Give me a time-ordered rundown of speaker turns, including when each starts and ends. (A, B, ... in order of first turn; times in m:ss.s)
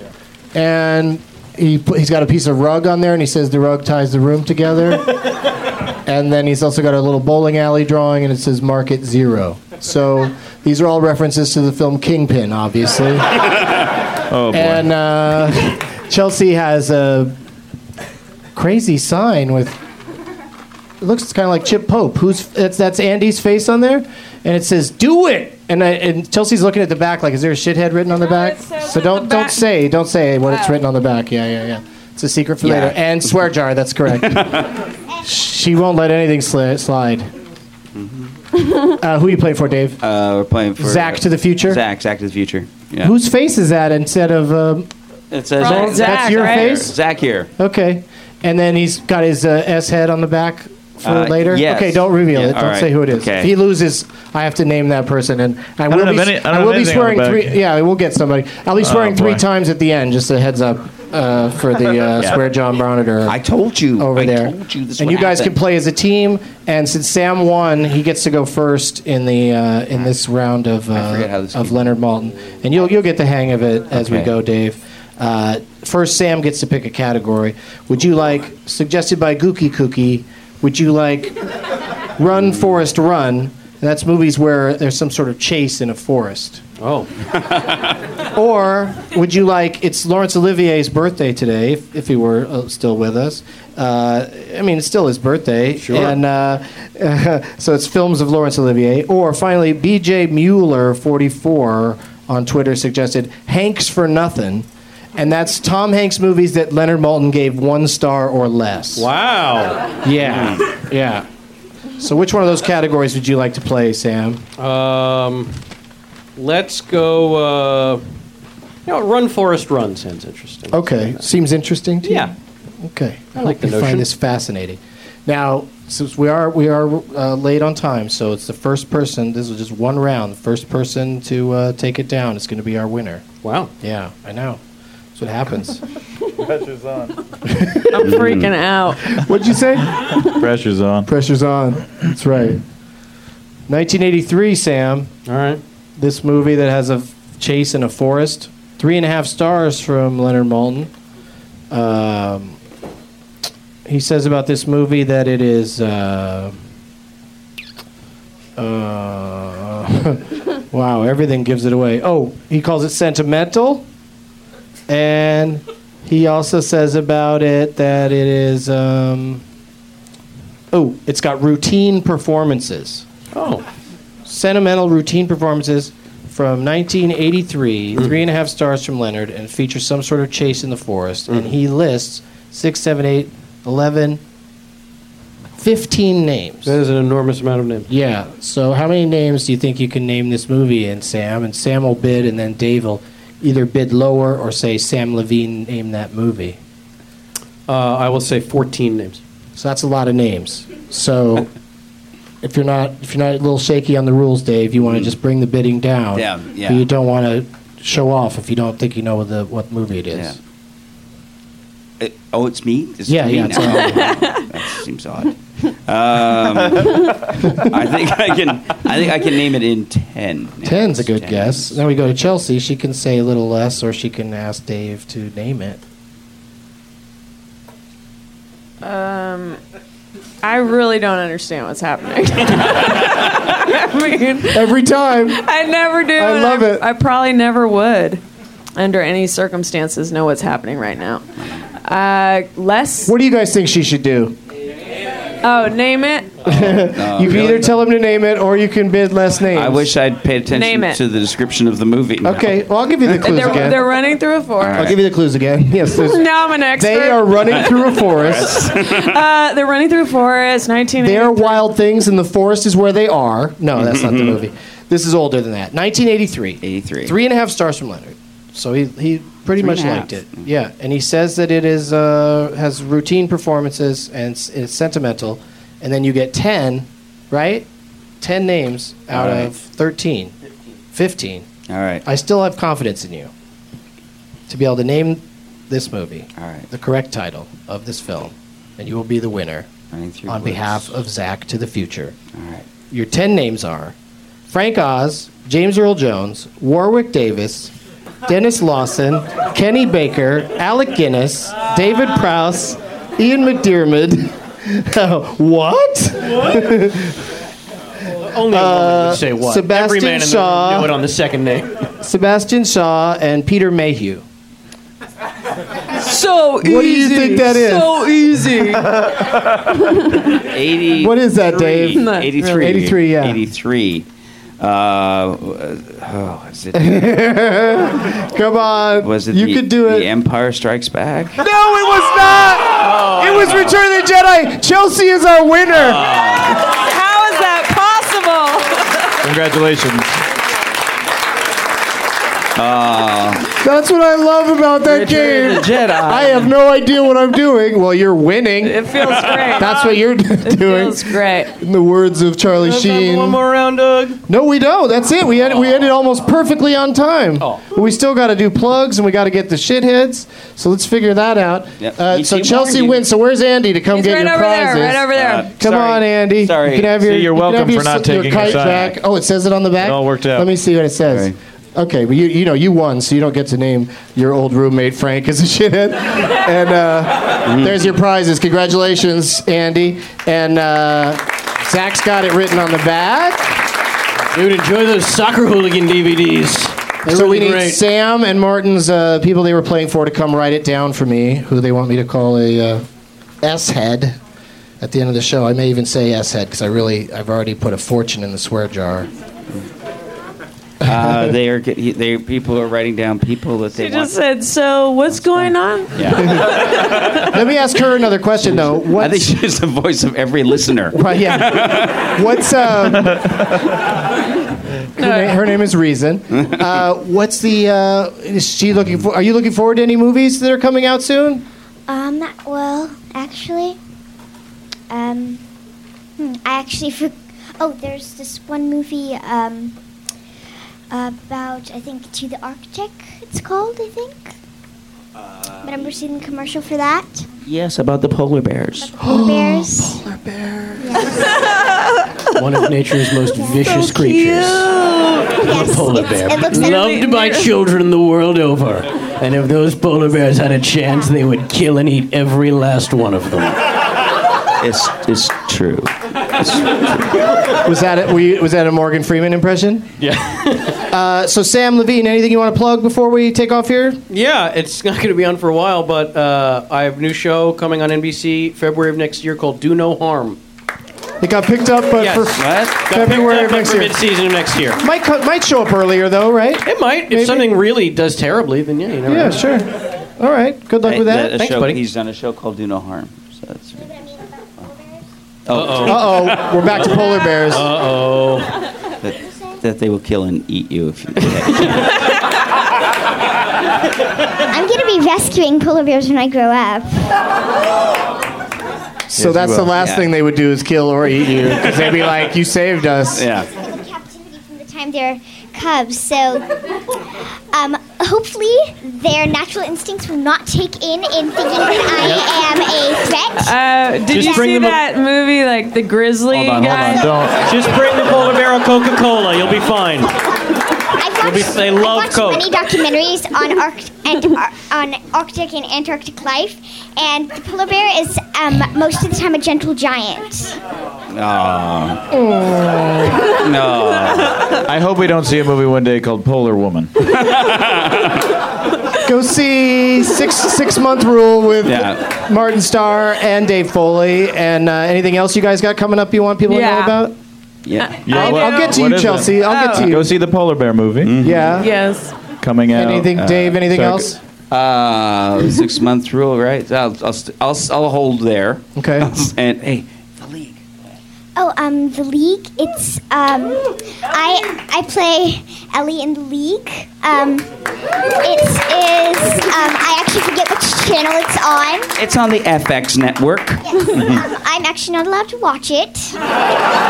0:00.5-0:05.2 A
0:06.0-0:13.5 A
0:14.3-0:14.9 B
0:14.5-0:17.3 A
0:18.5-0:19.8 A
0:21.0-0:34.6 A
0:28.2-0:29.6 C
0:30.4-0:30.8 C
0:32.6-0:33.3 D
0:34.1-0:34.7 D
0:35.2-0:37.3 A
0:38.0-0:38.3 D
0:38.9-0:40.0 A
0:40.0-0:43.1 D
0:40.8-0:41.8 A
0:43.0-0:44.9 A
0:45.3-0:47.5 D
0:45.6-0:46.8 C
0:45.6-0:46.9 A
0:47.6-1:03.4 A
0:51.0-0:53.5 D
0:55.9-0:57.5 B
0:58.8-0:59.4 B
1:03.2-1:05.5 D
1:04.0-1:21.4 A
1:10.9-1:11.9 D
1:13.9-1:14.3 D
1:22.2-1:26.6 A
1:26.8-1:27.1 E
1:28.3-1:49.1 A
1:35.8-1:36.2 E
1:49.0-1:49.9 E
1:50.0-1:51.2 A
1:50.2-1:50.7 D
1:52.0-1:54.4 A
1:54.6-1:55.6 E
1:56.4-1:58.0 E
1:58.8-2:01.2 E
2:00.7-2:13.2 A
2:02.0-2:02.3 E
2:03.3-2:04.1 E
2:13.4-2:13.7 E
2:13.8-2:14.6 A
2:15.1-2:15.8 A
2:16.4-2:17.1 B
2:17.4-2:17.9 A
2:17.9-2:19.2 C
2:18.0-2:18.5 D
2:19.1-2:20.1 A
2:20.2-2:21.1 B
2:21.0-2:22.6 A
2:23.7-2:25.1 A
2:25.2-2:25.6 E
2:26.0-2:30.9 A
2:31.7-2:32.6 A
2:33.8-2:36.6 A
2:38.6-2:43.8 A
2:44.9-2:49.4 A
2:50.7-2:53.0 A
2:53.3-2:53.6 E
2:54.2-3:04.2 A
3:01.3-3:01.5 E
3:05.6-3:06.7 A
3:06.6-3:07.9 E
3:07.9-3:16.6 A
3:17.7-3:19.2 E
3:19.6-3:21.5 A
3:22.4-3:30.4 A
3:24.8-3:25.1 D
3:26.1-3:26.8 D
3:32.0-3:41.8 D
3:33.1-3:34.1 A
3:33.7-3:34.5 C
3:37.4-3:37.7 A
3:40.6-3:45.8 A
3:48.8-3:49.6 C
3:50.4-3:54.8 C
3:54.5-3:55.4 A
3:55.3-3:58.2 C
3:56.2-3:56.9 A
3:58.8-4:01.2 C
4:01.8-4:03.1 C
4:03.0-4:04.4 A
4:05.4-4:06.4 C
4:06.4-4:09.9 A
4:06.5-4:07.7 D
4:09.5-4:13.3 D
4:10.5-4:11.0 C
4:12.2-4:13.9 A
4:13.2-4:14.9 C
4:14.6-4:15.0 D
4:14.7-4:16.2 A
4:15.9-4:17.6 C
4:16.8-4:18.6 A
4:18.1-4:19.2 D
4:18.5-4:21.6 C
4:21.0-4:37.6 A
4:23.8-4:24.4 D
4:26.6-4:27.1 D
4:29.6-4:30.4 D
4:38.2-4:40.3 A
4:39.1-4:39.5 D
4:40.9-4:41.4 A
4:41.7-4:42.0 D
4:42.0-4:43.3 A
4:44.5-4:49.7 A
4:46.4-4:46.7 D
4:49.9-4:50.9 D
4:50.3-4:52.2 A
4:52.3-4:52.6 D
4:52.9-4:53.9 A
4:54.5-4:57.7 A
4:58.3-5:07.2 A
5:08.2-5:11.9 E
5:08.5-5:10.9 A
5:12.0-5:14.2 A
5:16.0-5:18.9 C
5:16.6-5:19.0 A
5:19.9-5:20.2 C
5:20.4-5:24.0 D
5:21.0-5:23.4 A
5:21.9-5:22.8 C
5:24.6-5:27.1 D
5:26.7-5:30.1 A
5:29.0-5:31.4 D
5:31.4-5:36.0 A
5:35.7-5:36.6 D
5:36.4-5:39.0 C
5:39.2-5:40.2 B
5:42.6-5:43.5 D
5:43.6-5:53.4 A
5:44.9-5:46.5 D
5:45.0-5:45.8 E
5:48.6-5:51.5 C
5:52.6-5:54.2 E
5:54.3-6:23.6 A
6:01.8-6:03.0 D
6:03.9-6:05.5 C
6:05.1-6:07.0 D
6:07.0-6:09.0 B
6:09.8-6:10.5 B
6:11.1-6:11.4 D
6:17.4-6:17.7 D
6:24.3-6:27.8 E
6:27.1-6:32.8 A
6:33.4-6:34.2 A
6:34.8-6:39.1 A
6:40.8-6:44.1 D
6:43.7-6:47.2 C
6:45.9-6:46.5 D
6:47.3-6:49.3 A
6:48.5-6:52.2 D
6:50.9-6:53.2 A
6:53.0-6:53.3 B
6:55.0-7:01.4 A
6:55.0-6:55.4 C
7:01.9-7:03.8 F
7:04.9-7:05.4 F
7:06.2-7:09.7 F
7:10.9-7:14.3 F
7:15.6-7:17.3 F
7:17.4-7:18.9 D
7:18.8-7:20.0 F
7:19.0-7:20.8 A
7:20.8-7:21.2 F
7:22.4-7:24.7 E
7:23.3-7:23.8 F
7:23.5-7:25.7 C
7:25.4-7:27.0 F
7:25.5-7:33.6 E
7:26.3-7:27.5 C
7:34.6-7:37.1 D
7:37.6-7:39.8 A
7:40.0-7:40.8 E
7:40.9-7:44.0 A
7:44.1-7:50.4 E
7:51.2-7:54.0 A
7:52.0-7:54.8 E
7:52.4-7:52.9 D
7:54.8-7:57.5 A
7:56.6-7:59.5 E
7:59.1-8:01.5 A
8:00.8-8:03.8 D
8:01.4-8:01.8 E
8:03.8-8:05.0 F
8:05.4-8:06.5 D
8:05.5-8:06.0 E
8:05.8-8:07.7 A
8:06.7-8:08.6 E
8:09.0-8:12.0 D
8:14.5-8:17.2 F
8:19.1-8:23.2 A
8:19.3-8:19.6 B
8:19.8-8:20.1 D
8:23.1-8:23.5 D
8:23.5-8:26.5 F
8:27.5-8:33.5 F
8:32.0-8:32.4 E
8:33.4-8:37.1 C
8:34.1-8:34.8 E
8:36.3-8:37.4 B
8:36.3-8:37.2 D
8:37.4-8:40.1 E
8:41.0-8:50.6 F
8:41.2-8:42.5 E
8:51.1-8:52.1 D
8:52.1-8:53.2 A
8:53.2-8:54.5 D
8:54.6-8:56.9 B
8:57.1-8:58.2 D
8:59.0-9:07.1 A
9:01.6-9:02.1 D
9:06.5-9:07.1 C
9:07.6-9:08.1 D
9:07.8-9:08.8 C
9:08.0-9:11.2 B
9:08.1-9:10.1 A
9:09.3-9:09.9 C
9:11.0-9:11.5 D
9:11.2-9:11.7 A
9:11.5-9:12.2 C
9:12.4-9:14.2 B
9:12.7-9:14.2 A
9:13.2-9:13.5 D
9:14.5-9:20.6 D
9:18.7-9:19.2 A
9:21.4-9:27.5 F
9:28.2-9:31.9 F
9:32.0-9:34.2 D
9:33.7-9:36.2 F